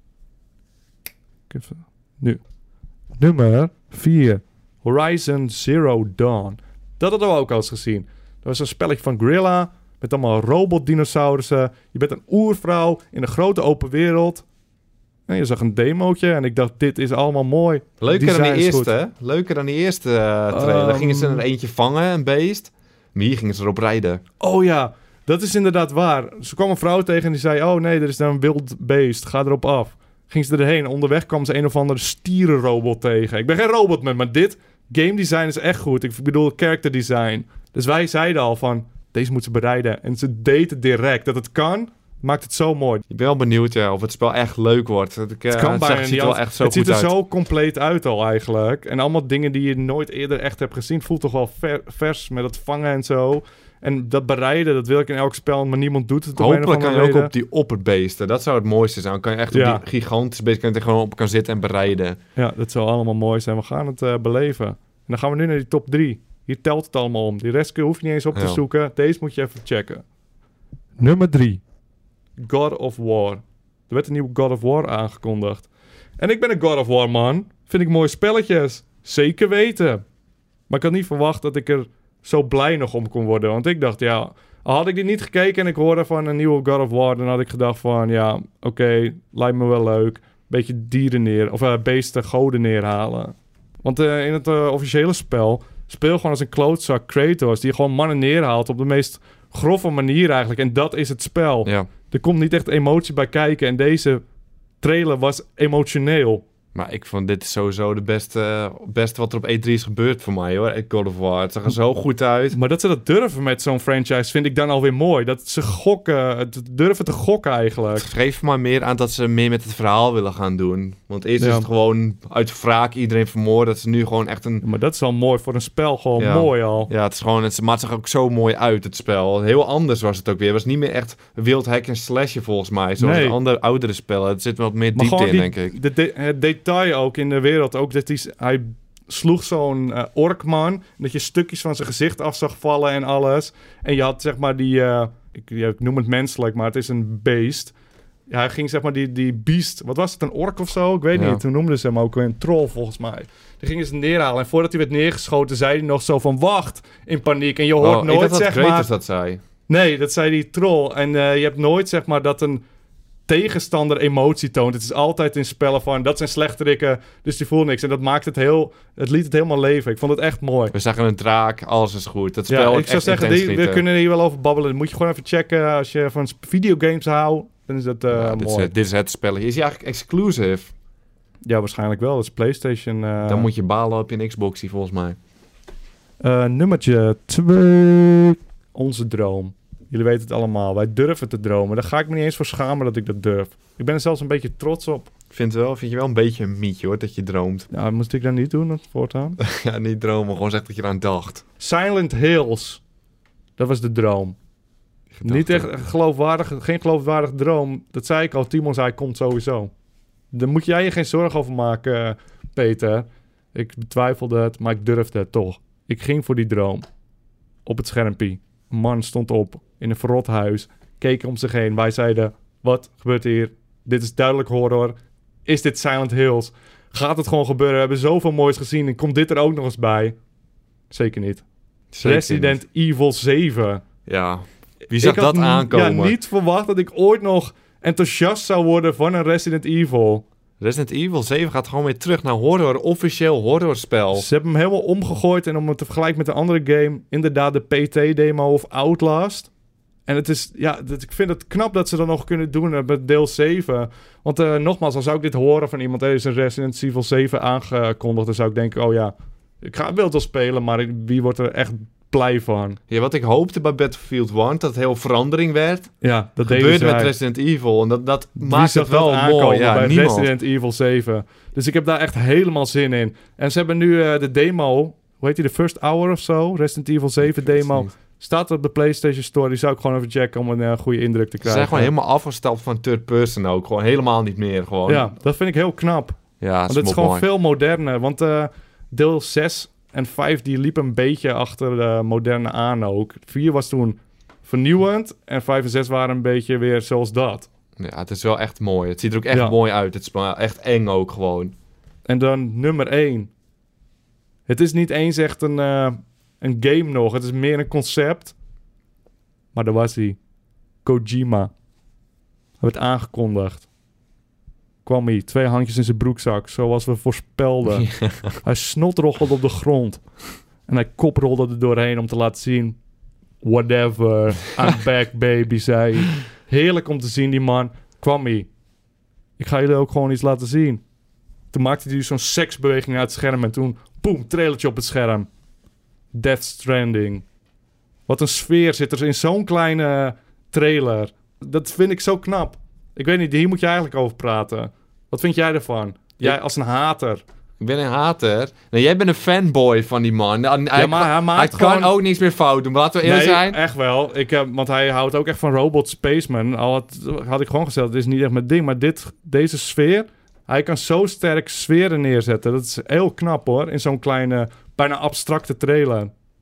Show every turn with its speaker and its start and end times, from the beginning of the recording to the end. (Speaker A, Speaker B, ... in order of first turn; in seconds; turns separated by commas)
Speaker A: 1.5-2.4, Speaker A: 3.2-14.4, Speaker A: 15.3-18.9, Speaker B: 18.0-24.2, Speaker A: 20.5-21.4, Speaker A: 24.4-43.0, Speaker B: 43.1-47.1, Speaker A: 45.5-57.3, Speaker B: 56.4-62.2, Speaker A: 59.5-59.8, Speaker A: 62.4-70.0, Speaker B: 68.3-68.6, Speaker A: 71.0-71.6, Speaker A: 72.4-75.7, Speaker A: 76.2-80.0, Speaker A: 80.7-104.2, Speaker A: 104.8-106.4, Speaker B: 106.8-112.6, Speaker A: 112.5-118.1, Speaker B: 118.0-124.6, Speaker A: 121.4-121.7, Speaker A: 124.6-126.9, Speaker B: 126.2-135.8, Speaker A: 133.0-133.4, Speaker A: 134.9-147.7, Speaker A: 148.3-158.9, Speaker B: 151.2-151.4, Speaker B: 157.8-159.4, Speaker A: 159.7-162.6, Speaker A: 163.3-170.7, Speaker B: 170.7-173.8, Speaker A: 172.5-178.7, Speaker B: 178.1-180.7, Speaker A: 181.4-183.5, Speaker B: 183.3-185.2, Speaker A: 186.2-195.1, Speaker B: 195.3-197.7, Speaker A: 197.7-199.4, Speaker B: 199.4-201.4, Speaker A: 201.6-202.8, Speaker A: 203.6-204.4, Speaker B: 205.1-205.7, Speaker A: 205.2-209.7, Speaker A: 210.3-216.8, Speaker A: 217.7-224.9, Speaker A: 225.5-230.2, Speaker A: 230.9-231.4, Speaker B: 231.9-232.6, Speaker A: 232.0-233.8, Speaker B: 234.1-236.2, Speaker A: 234.9-240.2, Speaker B: 240.6-244.3, Speaker A: 244.1-249.5, Speaker A: 250.1-262.8, Speaker B: 262.9-270.3, Speaker A: 266.0-267.1, Speaker A: 268.4-281.9, Speaker B: 277.2-277.9, Speaker B: 281.4-285.1, Speaker A: 284.9-297.5, Speaker B: 286.4-287.3, Speaker B: 297.8-301.6, Speaker A: 302.1-303.3, Speaker A: 304.5-308.3, Speaker A: 309.5-310.2, Speaker A: 310.8-311.5, Speaker A: 312.6-313.7, Speaker A: 314.9-322.8, Speaker B: 317.8-318.3, Speaker A: 323.4-328.5, Speaker A: 329.4-330.8, Speaker A: 331.5-335.3, Speaker A: 336.1-337.2, Speaker A: 338.1-347.2, Speaker B: 347.6-353.6, Speaker A: 350.8-351.9, Speaker A: 353.0-366.1